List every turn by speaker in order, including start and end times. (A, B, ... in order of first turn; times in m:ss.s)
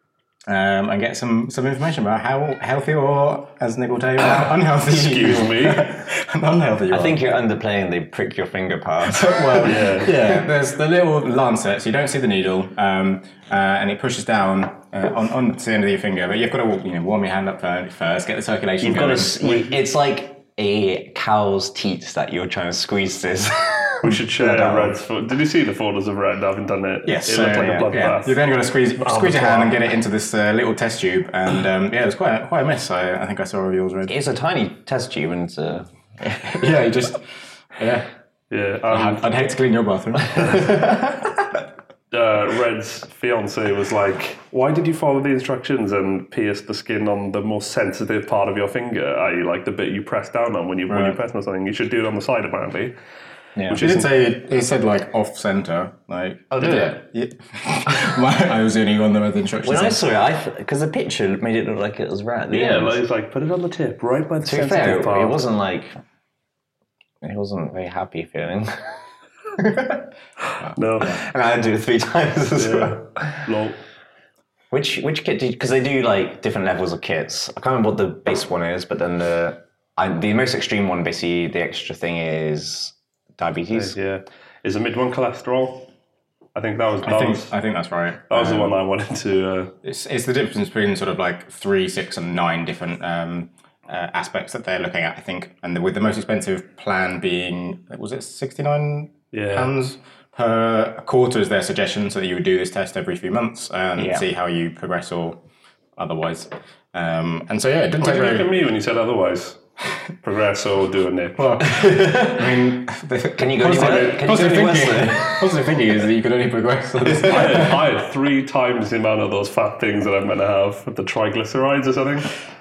0:00.5-0:07.2 A
0:04.4-0:06.0 B
0:06.9-0:09.7 C
0:09.0-0:19.5 A
0:09.6-0:10.2 B
0:18.8-0:25.0 C
0:24.0-0:28.4 B
0:27.0-0:34.1 A
0:29.0-0:29.8 B
0:34.1-0:36.6 C
0:36.4-0:38.1 A
0:38.5-0:39.2 B
0:38.9-0:41.3 A
0:42.1-0:53.0 B
0:50.9-0:51.2 A
0:53.6-0:53.8 C
0:53.7-0:54.1 B
0:53.7-1:00.0 A
0:56.6-0:56.9 B
0:59.6-1:03.0 C
1:02.5-1:05.4 B
1:04.4-1:06.0 C
1:07.2-1:08.9 C
1:09.6-1:09.8 C
1:10.6-1:11.1 A
1:10.8-1:11.2 B
1:11.0-1:13.5 C
1:12.6-1:13.8 B
1:14.7-1:24.0 C
1:23.7-1:25.9 B
1:26.6-1:27.6 B
1:27.0-1:28.8 A
1:28.3-1:29.8 B
1:29.8-1:45.4 A
1:39.3-1:39.7 B
1:44.0-1:44.3 C
1:46.0-1:48.5 A
1:48.0-1:49.6 B
1:50.2-1:51.6 B
1:51.4-1:57.8 A
1:51.8-1:52.4 C
1:53.4-1:55.5 C
1:57.2-2:02.3 B